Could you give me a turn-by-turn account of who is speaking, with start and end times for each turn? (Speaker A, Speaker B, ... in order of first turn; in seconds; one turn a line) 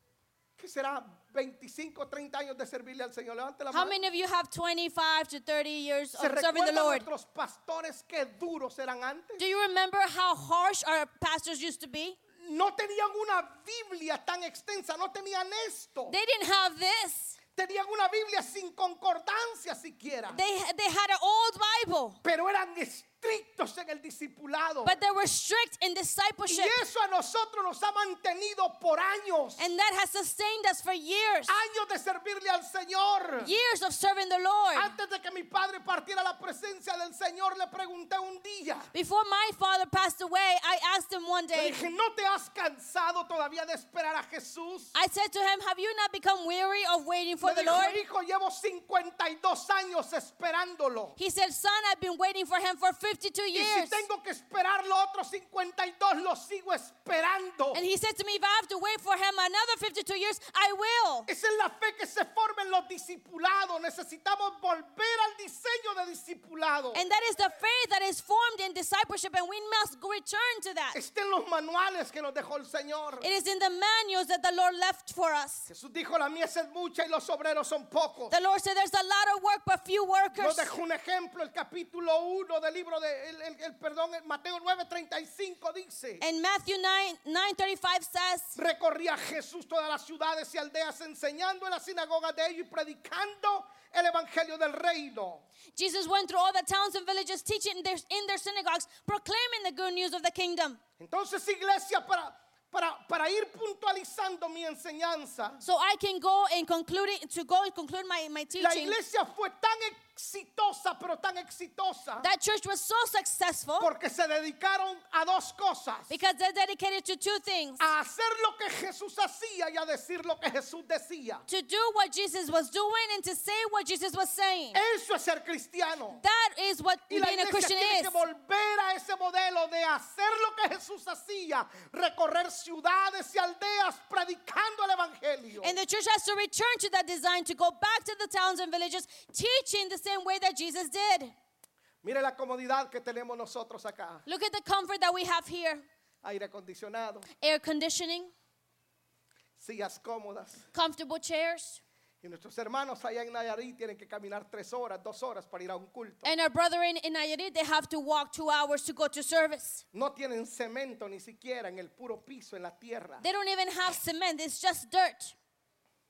Speaker A: 0.6-4.0
Speaker B: 3.7-7.1
Speaker A: 6.2-9.4
Speaker B: 9.4-12.2
Speaker A: 12.4-16.1
Speaker B: 16.1-17.4
Speaker A: 17.6-20.4
Speaker B: 20.3-22.2
Speaker A: 22.2-25.0
Speaker B: 24.8-26.8
Speaker A: 26.5-29.6
Speaker B: 29.6-31.6
Speaker A: 31.5-33.5
Speaker B: 33.4-35.0
Speaker A: 34.7-38.9
Speaker B: 38.9-41.8
Speaker A: 41.5-44.9
Speaker B: 44.9-48.0
Speaker A: 47.4-51.2
Speaker B: 51.2-54.0
Speaker A: 53.5-57.8
Speaker B: 57.7-61.3
Speaker A: 61.3-67.0
Speaker B: 66.9-71.0
Speaker A: 70.9-73.3
Speaker B: 73.2-75.7
Speaker A: 75.7-78.3
Speaker B: 78.3-80.7
Speaker A: 80.3-86.2
Speaker B: 86.2-88.6
Speaker A: 88.5-95.5
Speaker B: 95.7-100.8
Speaker A: 101.0-105.6
Speaker B: 105.6-109.0
Speaker A: 108.6-112.3
Speaker B: 112.2-113.9
Speaker A: 113.8-116.1
Speaker B: 116.1-117.9
Speaker A: 117.8-121.4
Speaker B: 121.5-124.8
Speaker A: 124.7-126.2
Speaker B: 126.1-128.2
Speaker A: 127.1-135.8
Speaker B: 135.6-141.3
Speaker A: 142.0-144.2
Speaker B: 144.2-145.8
Speaker A: 146.2-147.3
Speaker B: 147.4-148.3
Speaker A: 149.6-150.7
Speaker B: 150.7-151.8
Speaker A: 152.2-156.3
Speaker B: 156.2-159.8
Speaker A: 159.9-163.2
Speaker B: 163.2-165.3